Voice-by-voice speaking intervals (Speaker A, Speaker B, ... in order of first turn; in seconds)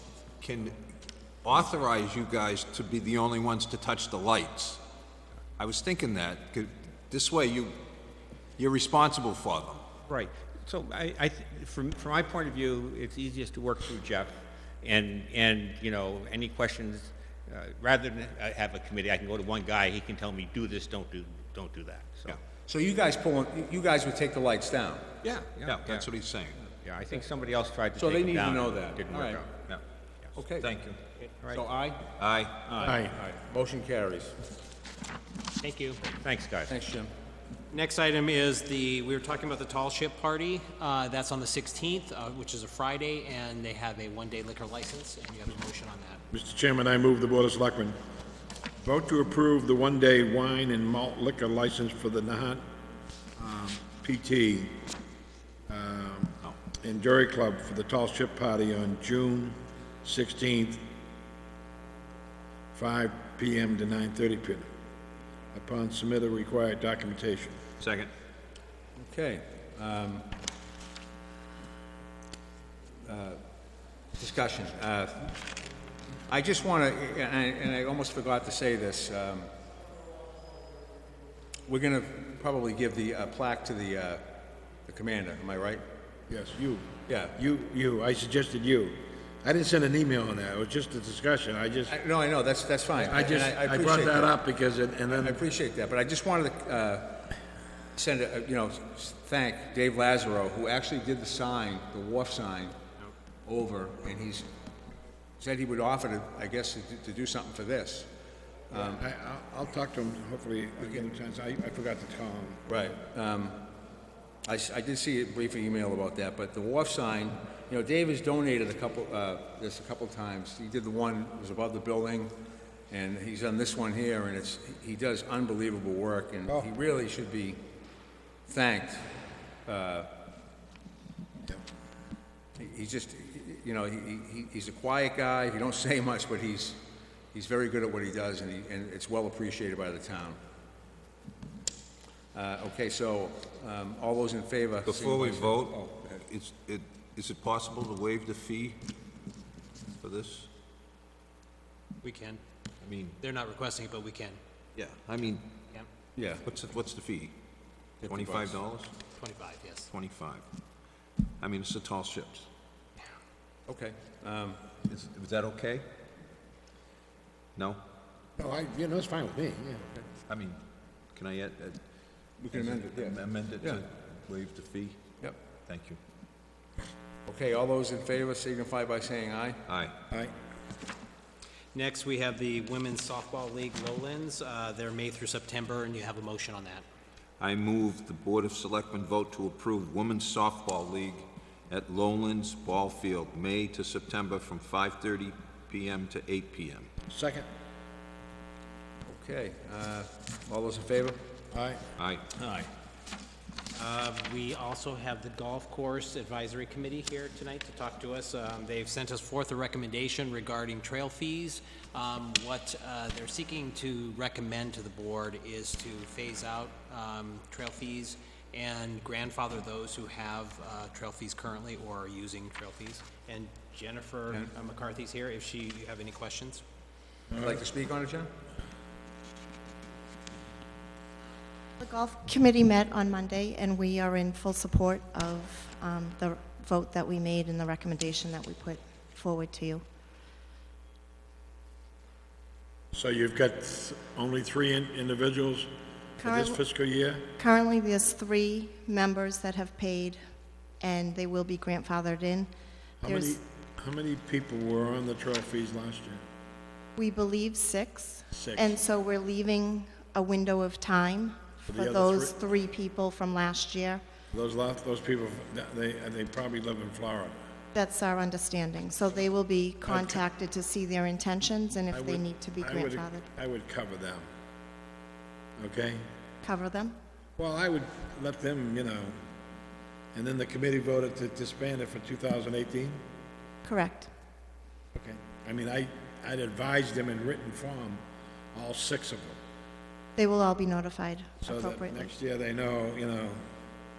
Speaker A: 0.4-0.8, 1.4-4.8, 5.6-7.8, 8.6-9.9, 25.6-26.6, 30.6-31.0, 32.2-32.7, 67.8-68.1, 144.8-148.8, 150.0-150.5, 152.8-153.2, 154.8-155.6, 156.4-157.3, 158.0-158.9, 159.9-160.4, 161.4-162.5, 164.8-165.9, 167.6-167.8, 170.3-170.6, 171.1-171.8, 172.5-175.0, 175.7-176.0, 179.7-180.0, 187.4-196.9, 202.0-202.2
Speaker B: 10.0-22.4, 25.2-26.1, 26.8-29.5, 36.1-36.7
Speaker C: 22.6-25.1, 26.6-27.2, 27.9-29.5, 30.3-30.7, 31.5-32.1, 32.6-34.3, 36.7-37.1, 69.0-70.3, 73.0-73.4, 74.2-75.3, 76.3-79.5, 81.7-84.3, 84.9-85.8, 87.1-87.3, 91.9-94.3, 95.1-97.3, 97.9-102.8, 103.5-104.5, 105.4-108.1, 108.7-109.0, 112.7-113.6, 114.5-122.3, 122.9-127.6, 128.5-129.1, 129.7-130.1, 132.6-136.8, 137.3-140.4, 142.3-145.5, 156.2-156.4, 158.0-158.6, 163.7-164.6, 172.4-173.8, 177.3-179.6, 199.1-201.2, 202.3-202.7, 227.3-228.3
Speaker D: 32.8-33.1, 46.3-48.0, 48.8-52.6, 53.4-54.8, 55.7-60.9, 62.7-64.7, 65.5-67.6, 86.3-92.0, 92.9-95.4, 108.7-112.6, 168.4-169.9, 197.1-197.5, 201.5-201.8, 242.9-247.3, 253.0-256.2, 258.3-258.8, 261.7-262.3, 264.3-267.4, 269.9-270.2, 271.9-274.3, 275.6-276.0, 277.4-279.2, 280.1-283.0, 284.9-288.0, 288.5-289.4, 291.4-293.4
Speaker E: 35.6-36.1, 37.7-46.2, 152.0-152.4, 153.2-154.4, 159.1-159.9, 181.7-186.8, 203.7-226.6
Speaker F: 231.8-239.8, 246.2-246.6, 247.4-250.2, 250.8-252.5, 253.0-253.4, 257.0-264.0, 267.7-273.2, 276.4-277.0, 283.6-284.1, 290.2-292.1